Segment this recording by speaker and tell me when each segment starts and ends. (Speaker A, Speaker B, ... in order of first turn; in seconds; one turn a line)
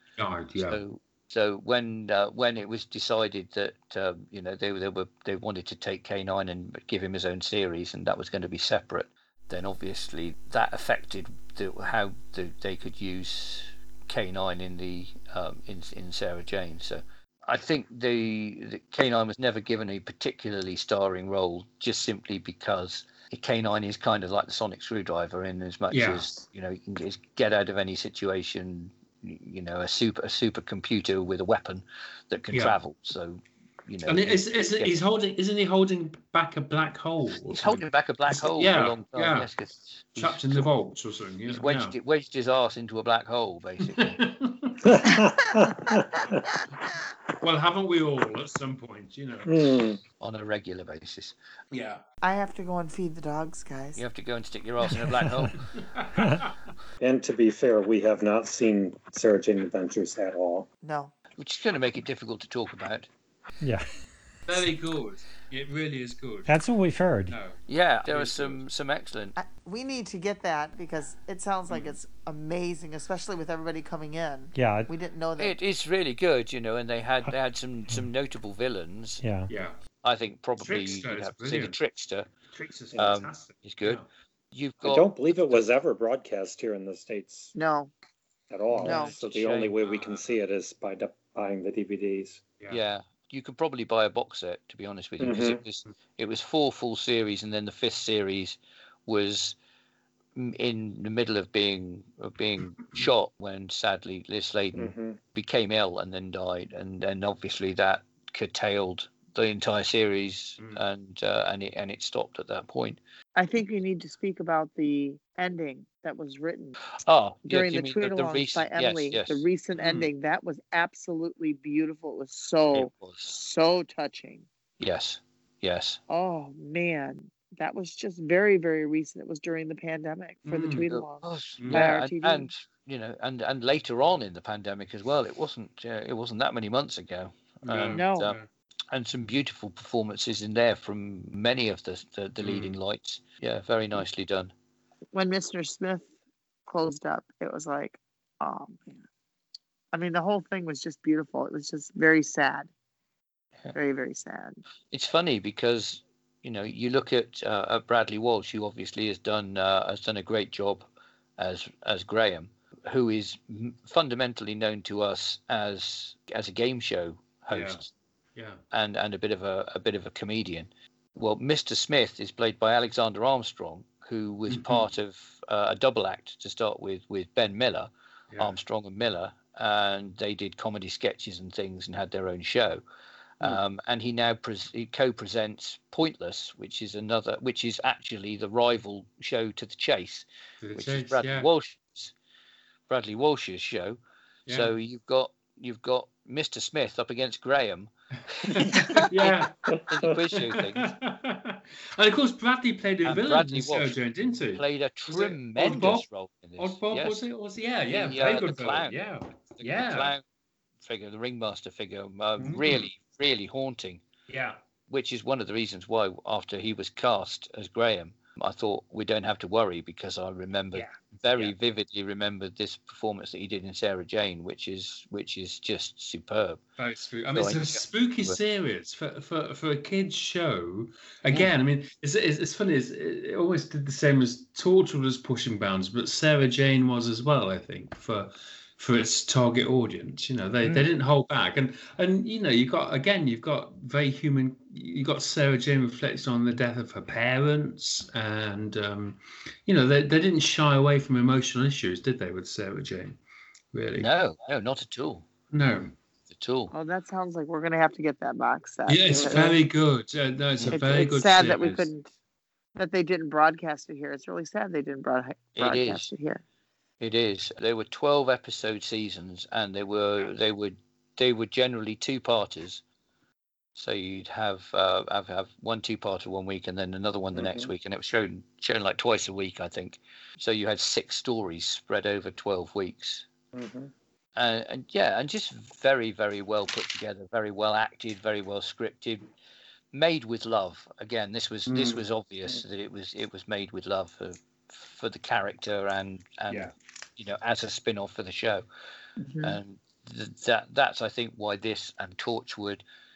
Speaker A: 0.2-0.8
Speaker B: 0.6-35.0
Speaker A: 25.9-26.3
Speaker A: 34.1-39.5
Speaker B: 37.5-40.7
Speaker A: 40.1-42.0
Speaker B: 41.5-44.2
Speaker A: 43.8-44.8
Speaker C: 44.8-46.4
Speaker A: 47.4-49.8
Speaker C: 49.5-50.0
Speaker B: 50.2-51.3
Speaker A: 51.7-52.0
Speaker D: 52.2-54.0
Speaker B: 53.9-55.6
Speaker A: 55.7-56.5
Speaker C: 57.0-60.7
Speaker D: 60.8-61.1
Speaker B: 61.4-63.1
Speaker E: 63.6-63.9
Speaker A: 64.5-66.5
Speaker E: 66.5-67.4
Speaker A: 67.3-68.6
Speaker B: 67.7-69.3
Speaker D: 69.3-75.5
Speaker E: 74.5-74.9
Speaker B: 75.4-79.2
Speaker E: 79.2-79.5
Speaker A: 79.5-79.8
Speaker B: 80.0-82.3
Speaker A: 80.6-81.8
Speaker A: 82.5-84.1
Speaker B: 82.9-84.0
Speaker B: 84.5-85.6
Speaker C: 84.8-87.5
Speaker D: 87.5-87.9
Speaker C: 88.5-92.4
Speaker D: 88.8-89.2
Speaker B: 88.8-89.8
Speaker A: 89.8-90.3
Speaker B: 92.7-99.5
Speaker C: 95.2-95.6
Speaker B: 100.3-113.0
Speaker C: 104.7-105.2
Speaker D: 113.3-116.8
Speaker B: 117.0-119.4
Speaker D: 117.4-124.5
Speaker A: 119.8-120.1
Speaker B: 122.7-123.4
Speaker B: 124.8-126.0
Speaker D: 126.1-132.5
Speaker A: 130.5-130.9
Speaker B: 130.9-138.4
Speaker A: 131.6-131.9
Speaker A: 137.6-138.4
Speaker D: 137.9-138.3
Speaker B: 138.9-144.5
Speaker A: 142.4-142.8
Speaker D: 145.1-146.1
Speaker D: 146.7-149.0
Speaker D: 149.9-152.7
Speaker D: 153.7-154.6
Speaker B: 154.9-160.9
Speaker B: 161.4-167.9
Speaker A: 167.5-167.8
Speaker B: 168.7-182.8
Speaker A: 174.5-174.9
Speaker B: 183.4-192.1
Speaker A: 190.6-191.5
Speaker B: 192.9-200.9
Speaker A: 194.5-194.7
Speaker A: 198.4-206.0
Speaker C: 199.7-200.1
Speaker B: 203.0-203.9
Speaker B: 204.5-207.2
Speaker A: 206.6-210.1
Speaker B: 207.9-209.0
Speaker B: 209.6-210.2
Speaker B: 210.8-214.0
Speaker A: 212.4-212.8
Speaker A: 214.3-214.6
Speaker B: 214.9-226.6
Speaker A: 220.7-221.5
Speaker A: 226.8-253.2
Speaker B: 227.3-228.4
Speaker A: 253.7-254.1
Speaker B: 254.0-255.2
Speaker A: 255.5-255.9
Speaker B: 256.3-256.7
Speaker D: 256.7-259.6
Speaker A: 258.9-261.9
Speaker C: 259.1-259.5
Speaker D: 260.7-262.1
Speaker D: 262.8-266.4
Speaker B: 265.6-266.1
Speaker B: 267.0-272.8
Speaker B: 273.8-283.2
Speaker C: 277.3-277.7
Speaker C: 283.5-283.9
Speaker B: 284.4-289.2
Speaker B: 289.9-298.6
Speaker A: 291.7-292.0
Speaker D: 299.2-299.6
Speaker B: 299.4-302.8